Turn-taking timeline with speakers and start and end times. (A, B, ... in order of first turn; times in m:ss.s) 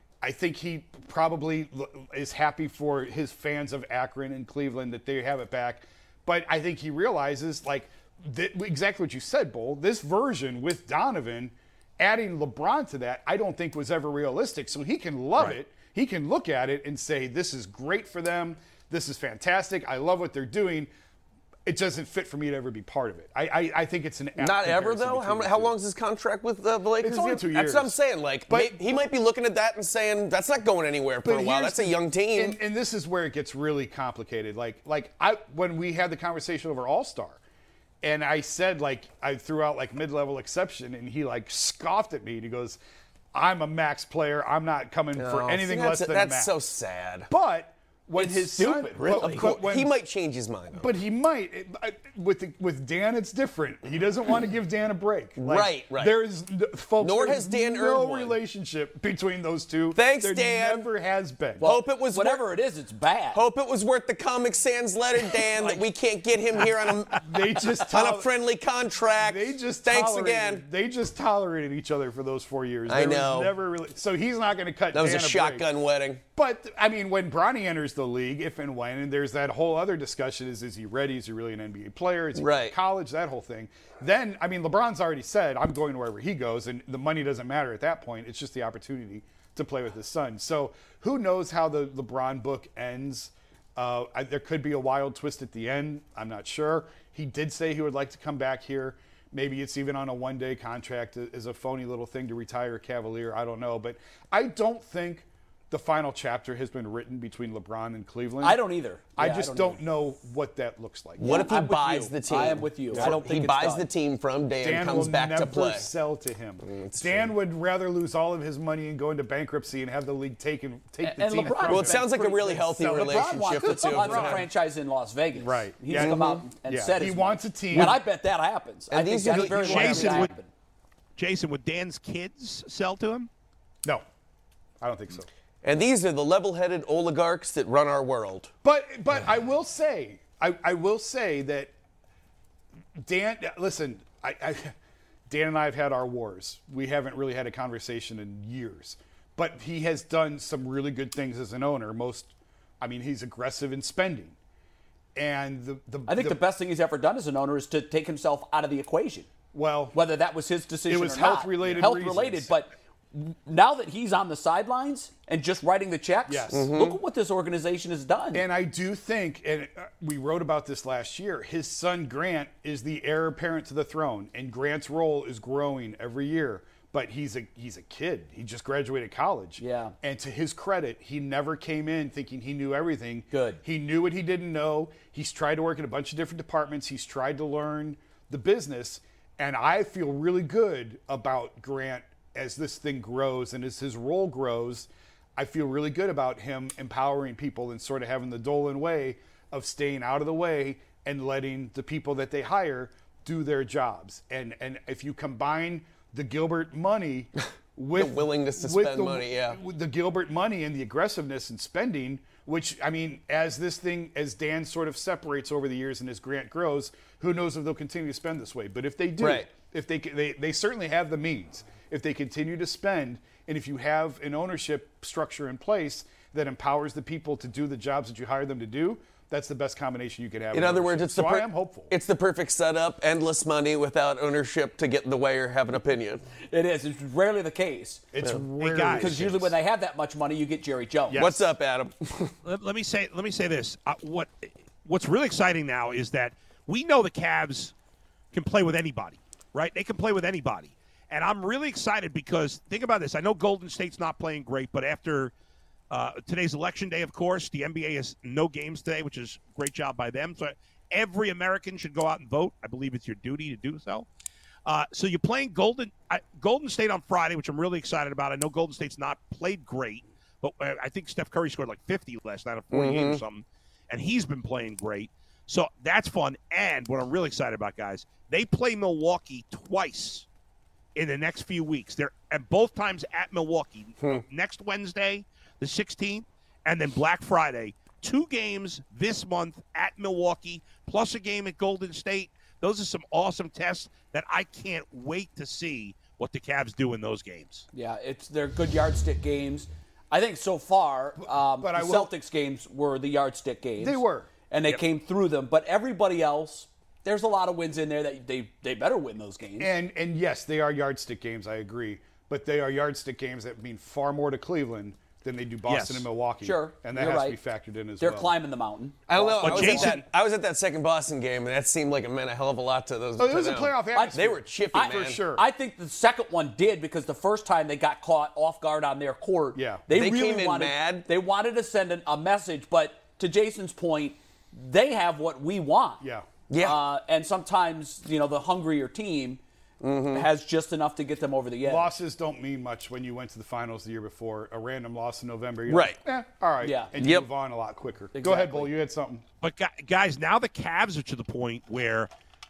0:00.2-0:20.9 A
0:21.7-0:25.8 A
0:24.4-0:32.6 B
0:27.0-0:28.0 A
0:28.5-0:29.0 A
0:31.2-0:37.4 A
0:38.0-0:42.8 A
0:43.3-0:46.6 A
0:45.2-0:47.3 B
0:47.3-0:49.9 A
0:48.2-0:49.6 C
0:49.0-0:50.9 B
0:50.8-1:01.7 A
0:55.4-0:56.2 B
0:57.0-0:58.4 B
0:59.9-1:00.9 B
1:01.6-1:03.4 C
1:01.6-1:02.4 B
1:03.3-1:10.6 B
1:07.2-1:08.3 A
1:09.2-1:15.7 A
1:12.9-1:13.5 B
1:14.9-1:16.2 B
1:16.4-1:48.6 A
1:22.4-1:22.8 B
1:48.4-1:49.8 C
1:49.2-1:51.5 A
1:51.2-1:53.9 C
1:51.2-1:55.9 B
1:54.6-2:04.5 A
1:56.6-1:57.3 B
2:01.0-2:10.5 C
2:01.6-2:04.5 B
2:05.4-2:08.0 A
2:05.9-2:06.4 B
2:08.9-2:10.3 B
2:09.5-2:10.3 D
2:11.2-2:13.3 D
2:14.8-2:15.3 A
2:15.6-2:18.5 B
2:18.6-2:21.7 A
2:23.0-2:24.7 A
2:25.3-2:34.4 A
2:35.2-2:36.4 A
2:36.1-2:39.3 C
2:39.5-2:40.0 A
2:39.9-2:48.4 C
2:40.9-2:42.5 A
2:46.3-2:46.7 A
2:46.5-2:47.0 B
2:48.3-3:51.9 A
2:59.6-2:59.9 C
3:03.3-3:03.6 C
3:28.0-3:29.6 B
3:39.2-3:39.5 B
3:50.5-3:56.2 B
3:56.5-3:58.1 C
3:58.1-3:59.5 A
3:58.6-3:59.1 D
3:59.0-4:01.2 C
4:01.1-4:01.4 A
4:01.1-4:02.3 B
4:02.4-4:07.7 D
4:08.3-4:15.3 D
4:15.9-4:24.1 D
4:24.7-4:40.3 D
4:32.7-4:33.2 B
4:41.0-4:57.7 D
4:57.7-5:09.7 C
5:01.2-5:02.1 A
5:03.8-5:04.3 A
5:09.6-5:18.4 A
5:15.7-5:16.1 D
5:16.4-5:17.4 C
5:18.0-5:20.0 C
5:19.1-5:25.2 B
5:19.4-5:20.0 D
5:23.2-5:25.4 A
5:23.9-5:24.2 C
5:24.7-5:36.0 C
5:29.6-5:29.9 A
5:29.9-5:31.1 B
5:36.0-5:36.3 A
5:36.5-5:36.8 B
5:36.6-5:39.4 C
5:39.8-5:40.3 B
5:40.1-5:41.9 C
5:41.6-5:49.2 A
5:45.7-5:46.0 B
5:46.6-5:46.9 C
5:47.0-5:47.3 B
5:48.1-5:48.7 C
5:49.4-5:52.1 D